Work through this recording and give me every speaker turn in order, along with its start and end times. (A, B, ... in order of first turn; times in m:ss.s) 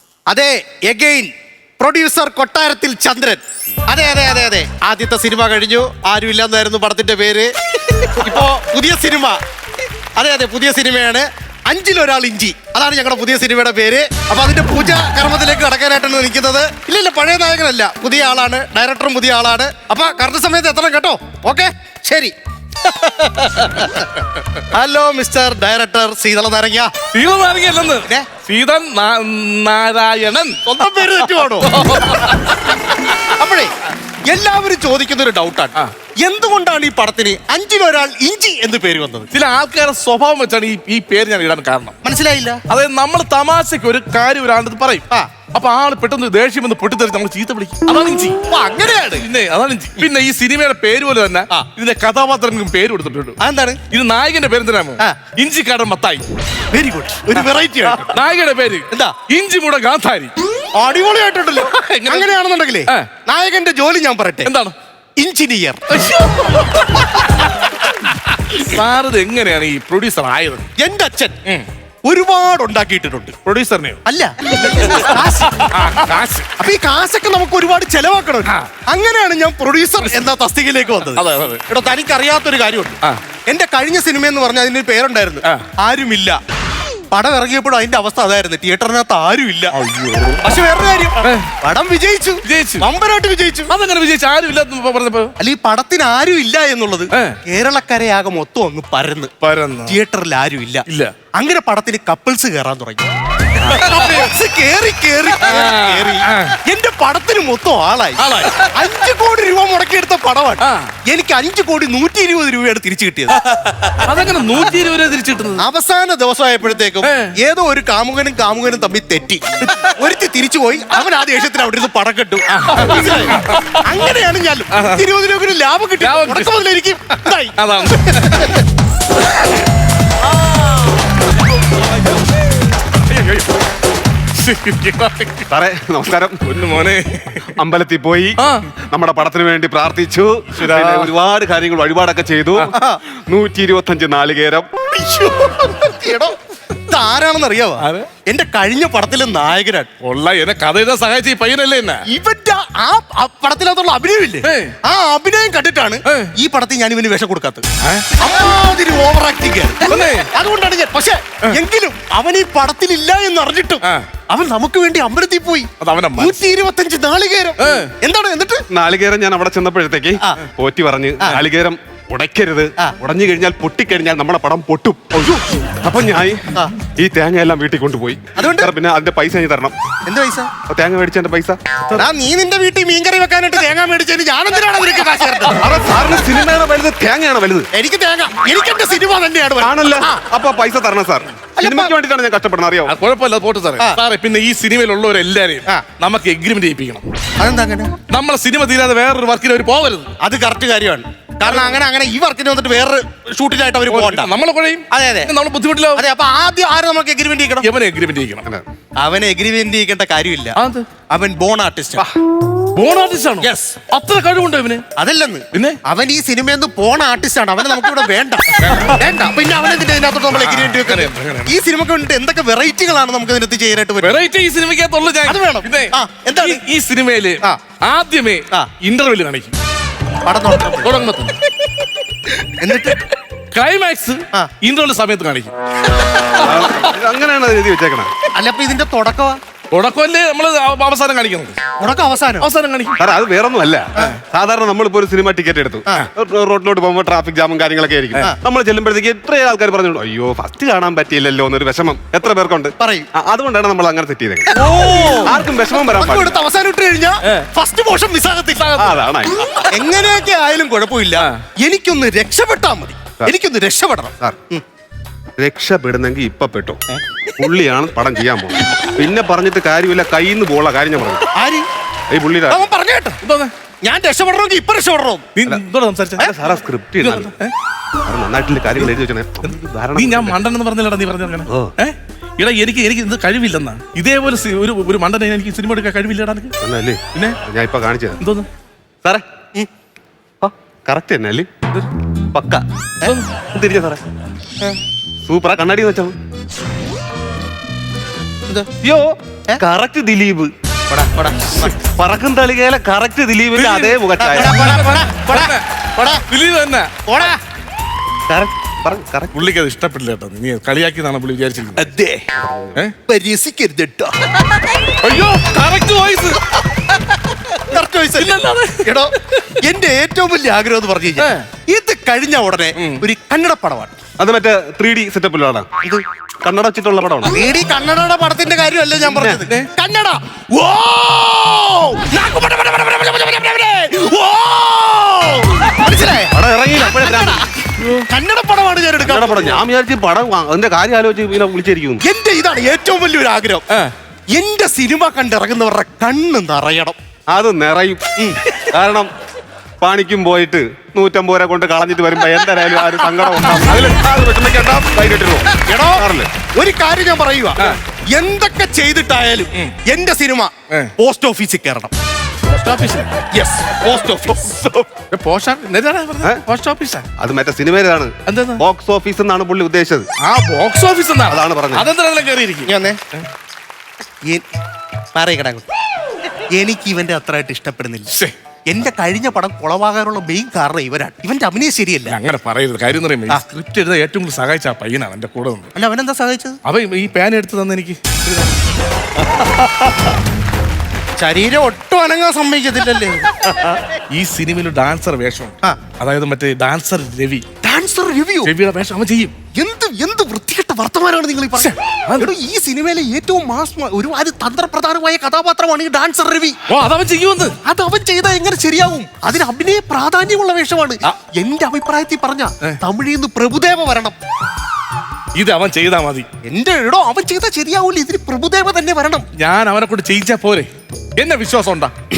0:00.3-0:09.4 A
0:10.2-0:24.1 A
0:24.7-0:26.9 A
0:27.1-0:30.6 B
0:30.6-0:33.7 A
0:31.6-0:32.6 B
0:34.3-0:39.3 A
0:39.3-0:42.0 B
0:42.0-0:42.6 A
0:42.7-0:48.4 B
0:48.3-0:49.3 A
0:49.2-0:53.4 B
0:53.4-0:53.8 A
0:53.9-0:56.2 B
0:56.7-0:58.2 A
0:58.0-1:00.3 B
0:58.9-0:59.2 A
1:00.8-1:04.5 A
1:01.7-1:02.3 B
1:04.5-1:04.7 B
1:05.2-1:05.8 A
1:05.9-1:10.7 B
1:10.8-1:11.4 A
1:12.0-1:13.4 A
1:13.4-1:14.0 B
1:14.0-1:15.7 A
1:14.7-1:16.5 B
1:16.6-1:26.4 A
1:21.2-1:21.6 B
1:27.1-1:29.8 A
1:29.7-1:30.4 B
1:30.4-1:33.7 A
1:31.2-1:31.5 B
1:32.4-1:32.9 B
1:33.7-1:35.3 B
1:35.4-1:39.3 A
1:37.1-1:37.4 B
1:39.4-1:40.0 B
1:39.9-1:43.0 A
1:40.9-1:41.1 B
1:43.6-1:53.9 A
1:43.6-1:44.3 B
1:45.4-1:46.6 B
1:48.2-1:48.7 B
1:50.6-1:50.9 B
1:53.9-1:55.6 B
1:55.6-2:08.6 A
1:57.0-1:57.4 B
2:02.5-2:04.0 B
2:04.7-2:05.0 B
2:06.0-2:06.6 B
2:07.6-2:08.6 B
2:13.1-2:13.5 B
2:14.4-2:15.5 B
2:15.5-2:16.4 C
2:16.4-2:17.5 B
2:17.6-2:18.4 C
2:18.4-2:18.7 B
2:18.9-2:24.7 C
2:20.6-2:21.1 B
2:22.7-2:23.0 A
2:24.9-2:29.9 A
2:27.8-2:28.1 B
2:30.0-2:32.0 B
2:32.1-2:37.6 A
2:34.4-2:34.7 B
2:36.1-2:36.3 B
2:37.8-2:38.1 B
2:38.2-2:48.6 A
2:39.8-2:40.3 B
2:45.8-2:46.4 B
2:47.6-2:47.9 B
2:48.7-2:55.2 C
2:55.2-2:55.4 A
2:55.8-2:59.8 C
2:58.4-2:58.7 A
3:00.1-3:00.5 A
3:00.7-3:02.1 C
3:02.0-3:06.2 A
3:05.6-3:07.7 C
3:07.7-3:10.2 A
3:09.6-3:13.0 C
3:11.6-3:11.9 A
3:12.9-3:17.1 B
3:17.4-3:18.0 A
3:18.1-3:20.1 B
3:20.2-3:24.3 A
3:21.5-3:21.7 B
3:23.9-3:26.0 B
3:24.9-3:25.3 A
3:26.0-3:27.7 A
3:27.6-3:28.5 B
3:29.0-3:30.6 A
3:30.6-3:30.9 B
3:31.1-3:32.0 A
3:32.7-3:34.8 B
3:33.4-3:33.8 A
3:35.0-3:44.2 A
3:35.5-3:35.8 B
3:38.5-3:39.0 B
3:40.3-3:41.6 B
3:44.0-3:49.6 B
3:45.2-3:46.6 A
3:50.2-3:50.9 A
3:50.8-3:51.4 B
3:52.6-3:53.0 A
3:53.5-3:55.5 B
3:56.4-3:58.1 C
3:58.3-3:59.4 A
3:59.7-4:01.6 B
4:01.8-4:02.5 A
4:02.4-4:03.0 B
4:03.0-4:16.4 C
4:12.8-4:13.1 A
4:14.5-4:18.7 A
4:18.5-4:19.0 B
4:18.8-4:19.4 C
4:19.7-4:24.6 A
4:25.4-4:26.8 C
4:27.4-4:31.3 C
4:31.3-4:31.7 A
4:32.1-4:32.7 C
4:32.5-4:33.2 A
4:33.2-4:33.5 B
4:33.8-4:35.3 A
4:35.4-4:36.3 B
4:36.2-4:37.3 C
4:37.0-4:37.5 B
4:38.0-4:40.4 C
4:39.4-4:46.6 B
4:41.5-4:41.7 C
4:46.6-4:48.2 C
4:48.2-4:48.5 B
4:50.4-4:51.7 C
4:52.3-4:52.6 C
4:53.5-4:54.0 C
4:55.3-4:56.2 C
4:58.8-5:00.5 C
5:00.9-5:01.8 A
5:01.7-5:04.6 C
5:03.6-5:06.2 A
5:03.6-5:05.6 B
5:06.3-5:06.9 B
5:07.1-5:07.4 A
5:08.3-5:09.4 C
5:09.3-5:11.9 B
5:11.8-5:12.2 A
5:12.3-5:12.8 C
5:13.1-5:14.6 A
5:15.0-5:16.4 B
5:17.5-5:23.9 A
5:18.2-5:19.6 B
5:21.2-5:21.5 B
5:22.8-5:23.0 B
5:24.2-5:25.7 C
5:26.4-5:27.4 C
5:27.3-5:37.5 A
5:29.1-5:29.4 C
5:29.2-5:29.7 B
5:36.3-5:37.4 C
5:37.8-5:38.1 B
5:38.1-5:39.6 A
5:39.0-5:42.0 C
5:42.0-5:43.6 A
5:44.3-5:47.0 A
5:47.3-5:48.0 C
5:48.2-5:48.4 A
5:48.6-5:49.1 C
5:49.8-5:56.3 C
5:52.9-5:53.8 B
5:55.5-6:01.9 A
6:02.5-6:03.2 B
6:03.3-6:04.9 A
6:05.1-6:07.1 B
6:07.2-6:10.1 C
6:08.3-6:08.6 B
6:10.2-6:13.3 B
6:11.3-6:11.9 C
6:12.7-6:13.0 A
6:15.1-6:15.7 A
6:16.5-6:18.2 A
6:18.7-6:22.2 A
6:22.1-6:25.7 B
6:25.8-6:26.6 A
6:26.6-6:28.5 B
6:31.2-6:33.8 A
6:34.1-6:37.4 B
6:37.6-6:38.5 A
6:38.4-6:39.3 B
6:39.5-6:46.6 A
6:41.6-6:42.3 B
6:46.7-6:47.6 B
6:47.6-6:54.2 A
6:55.4-6:56.3 B
6:56.4-6:59.3 A
6:59.4-7:01.9 B